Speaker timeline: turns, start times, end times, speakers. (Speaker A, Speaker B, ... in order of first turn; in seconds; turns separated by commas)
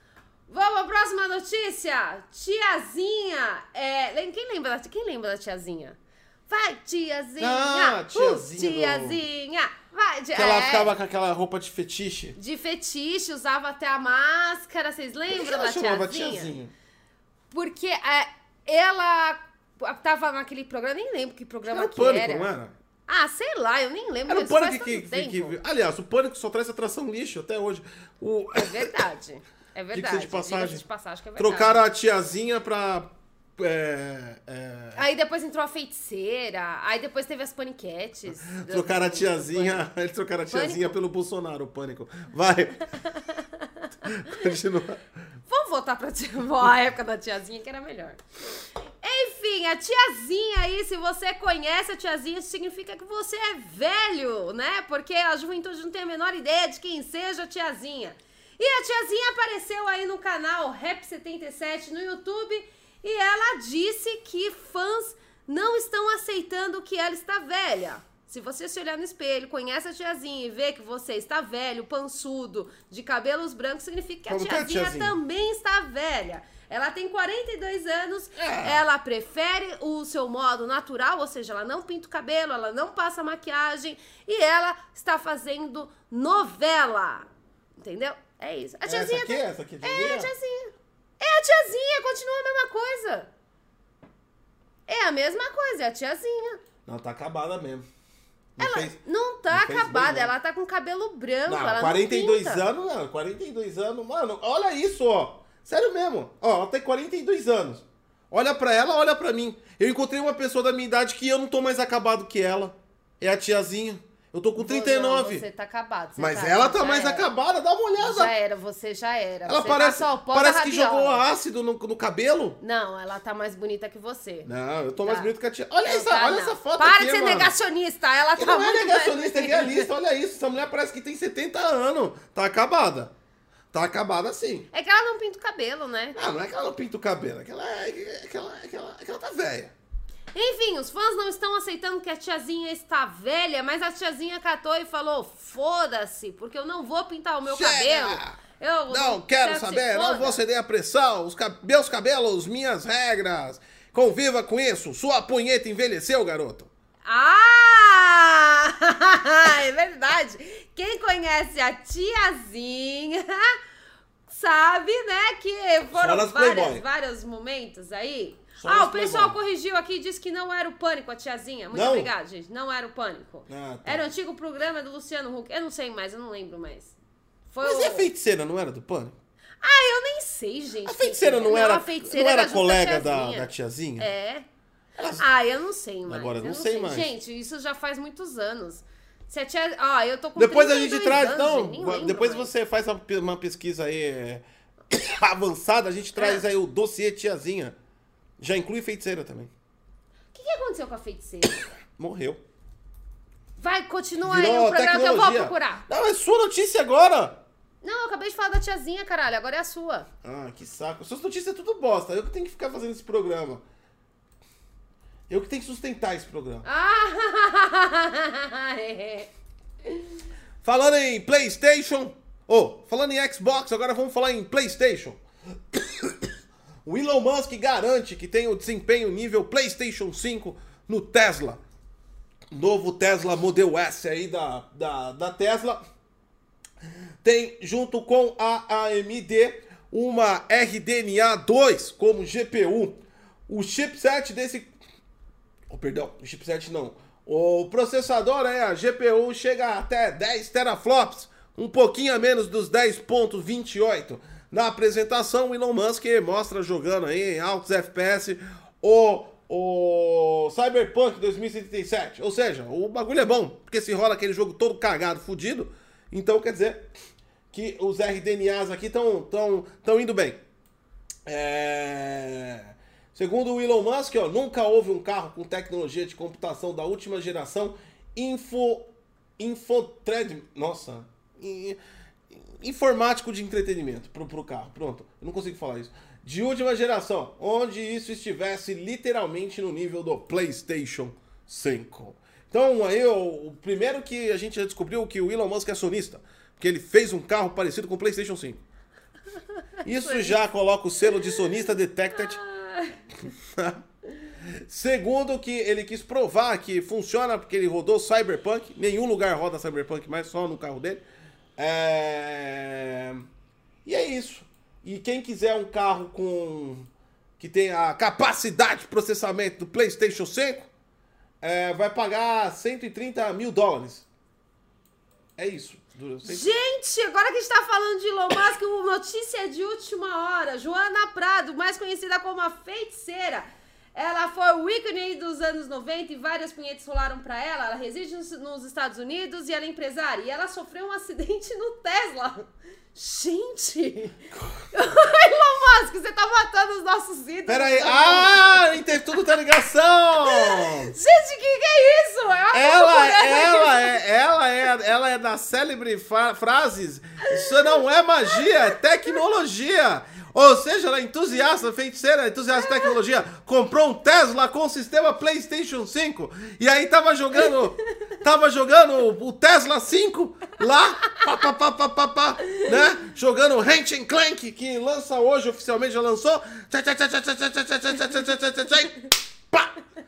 Speaker A: 0.5-10.9, Speaker B: 7.4-9.2, Speaker B: 10.3-12.3, Speaker A: 12.3-16.5, Speaker B: 15.3-16.7, Speaker A: 17.5-22.5, Speaker B: 21.7-22.7, Speaker A: 23.1-25.6, Speaker B: 24.3-28.9, Speaker A: 28.5-31.9, Speaker B: 29.9-30.8, Speaker B: 31.4-35.0, Speaker A: 34.9-39.9, Speaker B: 38.5-42.8, Speaker A: 40.5-41.0, Speaker A: 42.9-44.3, Speaker B: 44.0-45.0, Speaker A: 45.5-48.2, Speaker A: 49.0-93.3, Speaker B: 74.3-75.2, Speaker B: 78.3-78.8, Speaker B: 88.8-90.3, Speaker A: 94.9-96.6, Speaker B: 96.8-97.8, Speaker B: 98.6-99.0, Speaker A: 98.6-102.6, Speaker B: 99.5-100.3, Speaker B: 101.5-115.4, Speaker A: 114.5-117.3, Speaker B: 116.2-118.3, Speaker A: 118.0-121.2, Speaker B: 119.5-122.6, Speaker A: 122.6-124.5, Speaker B: 124.5-127.5, Speaker A: 125.0-125.3, Speaker A: 125.8-129.9, Speaker B: 128.3-133.1, Speaker B: 133.7-134.7, Speaker A: 134.7-136.2, Speaker B: 136.1-139.7, Speaker A: 140.3-150.4, Speaker B: 147.5-148.4, Speaker B: 148.9-156.7, Speaker A: 157.1-163.6, Speaker A: 164.3-176.9, Speaker B: 165.9-166.8, Speaker B: 168.6-169.4, Speaker B: 171.7-172.1, Speaker B: 173.5-174.1, Speaker A: 177.5-178.1, Speaker B: 177.6-179.2, Speaker A: 179.6-184.4, Speaker B: 180.8-184.1, Speaker B: 185.0-185.2, Speaker A: 185.2-192.5, Speaker B: 186.1-187.1, Speaker B: 190.3-197.7, Speaker A: 196.2-196.4, Speaker B: 198.4-199.5, Speaker A: 200.3-201.6, Speaker B: 202.0-202.4, Speaker A: 203.6-205.8, Speaker B: 204.2-207.4, Speaker A: 207.8-210.1, Speaker B: 210.2-213.6, Speaker B: 215.3-216.6, Speaker A: 216.6-219.3, Speaker A: 219.8-220.2, Speaker B: 220.6-226.3, Speaker B: 226.8-231.6, Speaker B: 232.5-235.8, Speaker B: 237.2-244.7, Speaker B: 245.7-266.9, Speaker B: 267.5-270.4, Speaker B: 271.2-281.8, Speaker B: 282.3-298.6, Speaker A: 299.8-300.4, Speaker B: 299.8-302.4, Speaker A: 302.1-303.0, Speaker B: 303.3-303.8, Speaker B: 304.4-311.0, Speaker B: 311.6-313.3, Speaker B: 313.8-320.7, Speaker B: 321.4-324.1, Speaker B: 325.4-326.5, Speaker A: 326.2-344.2, Speaker A: 344.7-349.2, Speaker B: 347.5-350.9, Speaker A: 350.2-354.0, Speaker B: 352.5-379.0, Speaker A: 357.2-358.8, Speaker A: 362.6-362.9, Speaker A: 372.5-372.8